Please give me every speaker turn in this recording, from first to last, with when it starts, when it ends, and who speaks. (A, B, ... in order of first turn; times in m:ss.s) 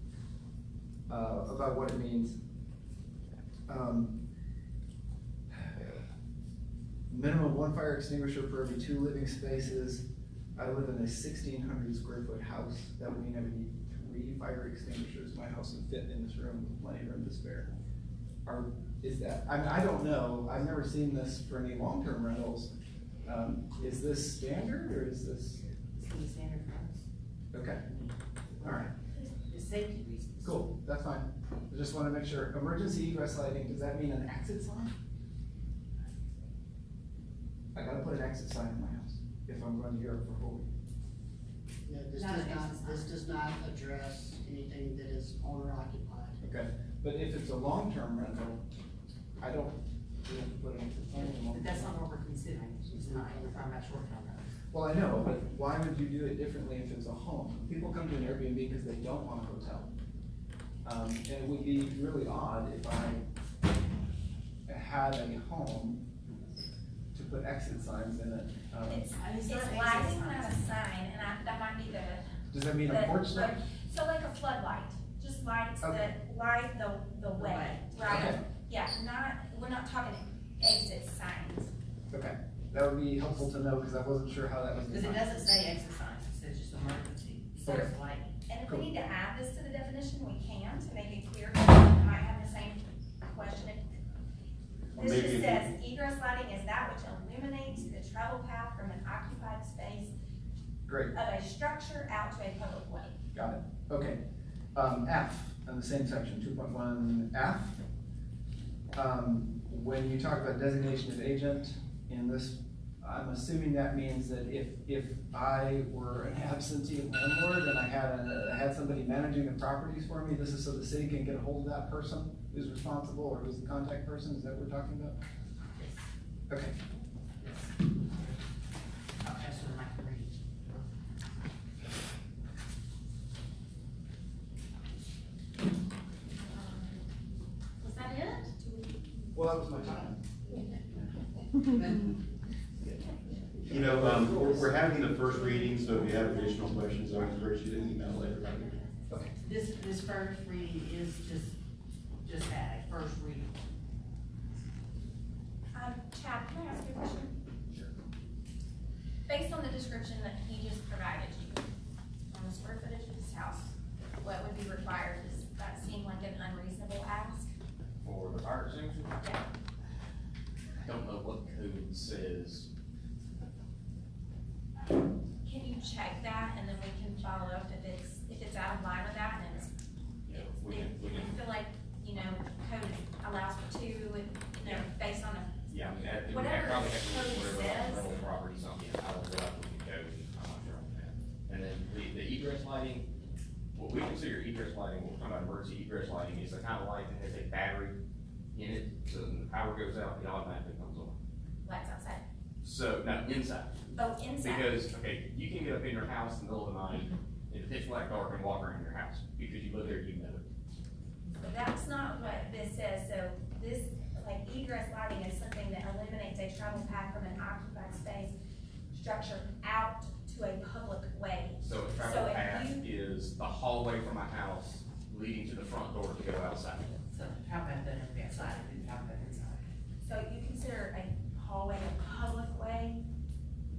0:01.1-0:02.3 A
0:03.7-0:04.1 A
0:05.5-0:06.0 A
0:07.1-0:10.0 A
0:10.6-0:17.7 A
0:18.4-0:22.7 A
0:23.2-0:25.6 A
0:25.9-0:27.0 B
0:27.5-0:27.8 A
0:27.8-0:28.8 B
0:28.6-0:28.9 A
0:29.5-0:30.6 B
0:30.4-0:34.9 A
0:37.7-0:40.7 A
0:41.8-0:46.4 C
0:42.1-0:43.2 B
0:46.4-0:48.6 A
0:49.4-0:52.0 A
0:51.4-0:54.5 B
0:52.9-0:53.7 C
0:54.7-0:59.9 A
1:00.8-1:03.2 A
1:04.7-1:06.0 A
1:07.1-1:09.0 A
1:08.9-1:12.2 D
1:09.1-1:10.6 B
1:12.5-1:13.6 A
1:12.8-1:21.7 D
1:15.8-1:16.1 A
1:17.4-1:18.3 B
1:18.0-1:18.4 A
1:22.1-1:25.3 A
1:24.9-1:28.3 B
1:27.6-1:27.9 D
1:28.5-1:33.8 D
1:28.7-1:28.9 A
1:34.9-1:35.7 E
1:34.9-1:40.1 D
1:40.9-1:41.1 A
1:41.1-1:43.1 D
1:43.3-1:44.2 A
1:44.7-1:47.8 A
1:48.9-2:05.2 A
2:05.8-2:06.0 B
2:06.5-2:06.7 A
2:08.1-2:08.4 B
2:09.2-2:10.8 B
2:16.5-2:17.0 D
2:17.8-2:19.0 D
2:19.3-2:20.2 A
2:23.6-2:24.8 A
2:23.7-2:28.8 E
2:29.4-2:31.6 B
2:32.2-2:33.5 B
2:35.7-2:37.4 D
2:39.3-2:41.7 D
2:42.3-2:47.5 D
2:48.0-2:49.2 F
2:50.8-2:52.7 F
2:55.4-2:59.7 D
3:00.2-3:01.4 F
3:00.3-3:05.7 D
3:05.7-3:13.1 F
3:06.3-3:08.2 D
3:13.7-3:18.0 F
3:18.5-3:21.2 F
3:21.6-3:22.2 D
3:22.6-3:23.8 F
3:24.0-3:24.7 D
3:24.4-3:30.4 F
3:31.4-3:38.3 D
3:38.9-3:42.8 D
3:41.6-3:46.9 F
3:47.1-3:49.6 B
3:50.0-3:53.0 D